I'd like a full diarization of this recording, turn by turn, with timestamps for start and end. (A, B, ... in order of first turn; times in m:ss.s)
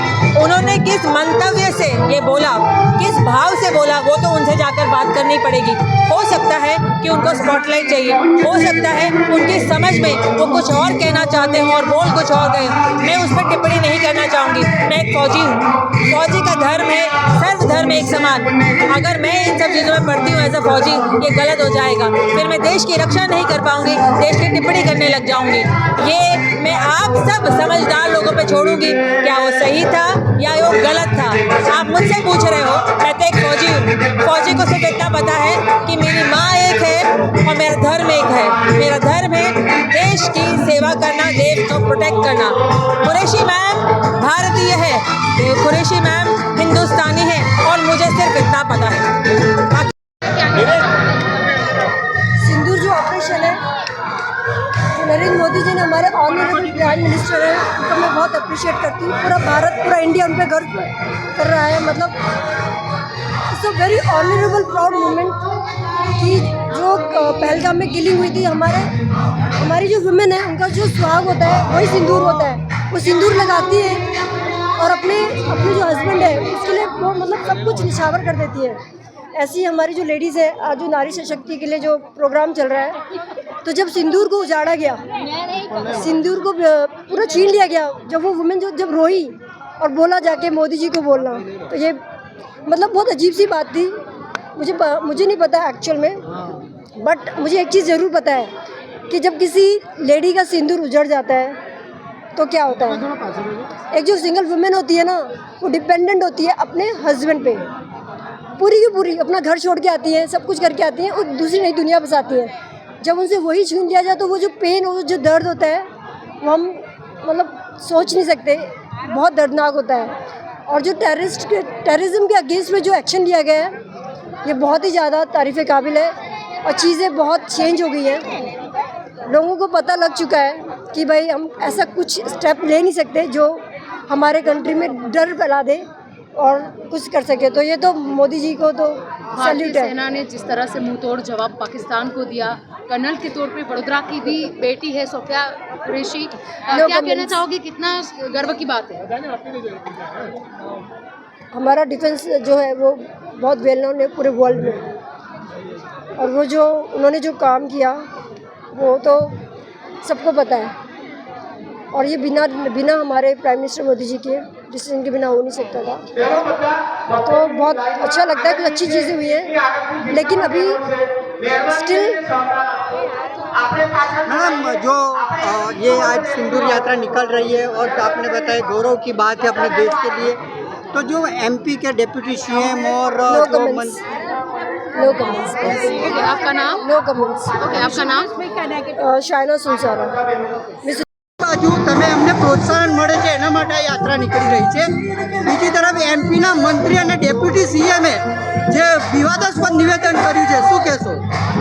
0:00.4-0:51.1 A
0:50.3-0:51.4 B
0:52.4-0:53.6 C
0:54.9-1:02.2 C
1:03.5-1:05.4 C
1:06.2-1:08.9 C
1:09.6-1:14.1 C
1:14.8-1:18.8 C
1:19.3-1:23.0 C
1:23.6-1:25.0 C
1:25.7-1:32.0 C
1:32.6-1:33.9 C
1:34.6-1:36.2 C
1:37.0-1:38.5 C
1:39.1-1:41.6 C
1:42.4-1:43.1 C
1:43.9-1:47.7 C
1:48.6-1:52.5 C
1:53.0-1:55.8 C
1:56.4-2:00.1 C
2:00.7-2:03.7 C
2:04.4-2:06.1 C
2:06.6-2:08.2 C
2:09.3-2:15.8 C
2:16.4-2:19.9 C
2:19.4-2:29.1 B
2:26.7-2:27.4 C
2:31.5-2:34.9 C
2:36.2-2:38.0 C
2:38.7-2:39.4 C
2:40.0-2:40.7 C
2:41.9-2:46.6 C
2:47.2-2:50.8 C
2:51.5-2:52.3 C
2:54.2-3:00.4 D
3:00.9-3:04.0 D
3:03.3-3:04.0 C
3:04.9-3:06.0 C
3:06.0-3:06.8 B
3:06.8-3:07.7 C
3:07.6-3:08.4 B
3:08.9-3:10.2 C
3:11.4-3:21.2 D